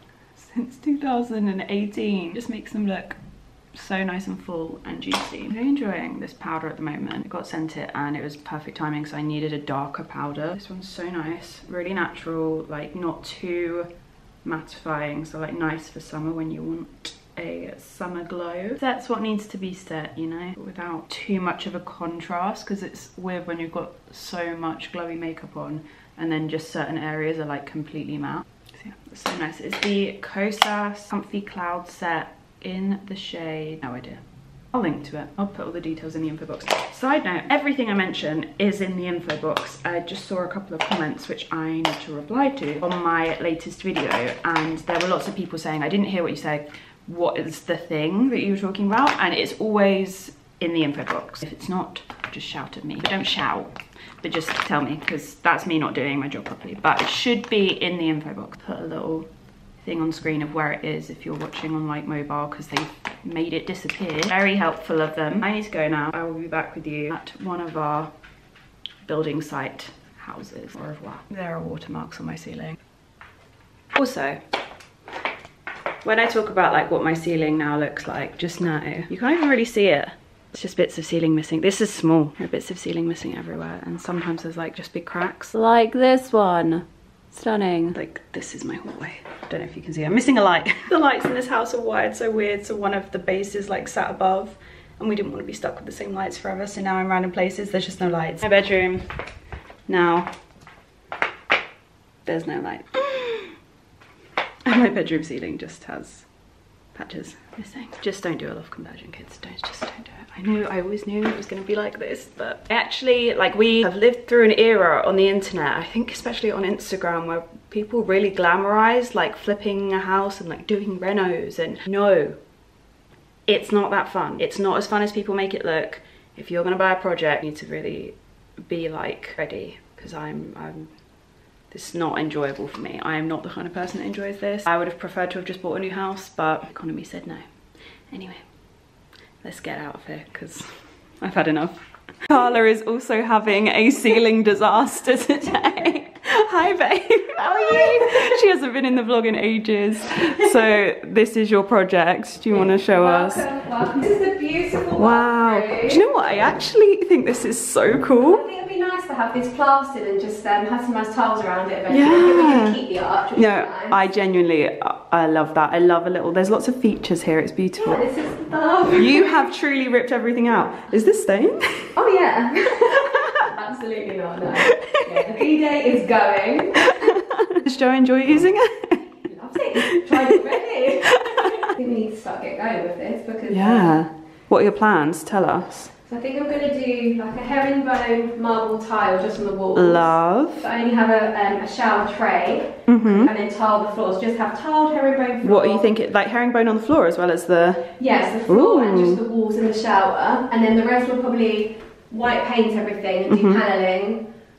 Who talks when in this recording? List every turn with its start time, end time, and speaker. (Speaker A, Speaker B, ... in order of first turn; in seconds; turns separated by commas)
Speaker A: 0.3-3.2, Speaker A: 3.7-13.9, Speaker A: 14.4-59.3, Speaker A: 59.8-68.1, Speaker A: 69.0-72.8, Speaker A: 73.9-74.4, Speaker A: 76.0-99.1, Speaker A: 99.9-100.3, Speaker A: 102.2-103.5, Speaker A: 104.6-106.3, Speaker A: 106.9-122.4, Speaker A: 123.5-131.0, Speaker A: 131.7-137.5, Speaker A: 138.1-138.4, Speaker A: 139.4-153.5, Speaker B: 147.7-148.0, Speaker B: 152.5-156.1, Speaker A: 154.9-158.4, Speaker B: 158.3-164.0, Speaker A: 161.9-162.8, Speaker A: 163.3-168.1, Speaker B: 167.8-169.5, Speaker A: 169.0-172.0, Speaker B: 171.9-177.2, Speaker A: 172.8-173.4, Speaker A: 174.7-175.3, Speaker A: 176.8-179.0, Speaker B: 179.2-184.0, Speaker A: 179.9-180.3, Speaker A: 181.1-181.7, Speaker A: 183.5-185.9, Speaker B: 186.1-195.9, Speaker A: 189.7-190.7, Speaker A: 192.9-193.3, Speaker A: 195.4-197.9, Speaker B: 198.0-204.2, Speaker A: 198.5-199.2, Speaker A: 203.3-203.6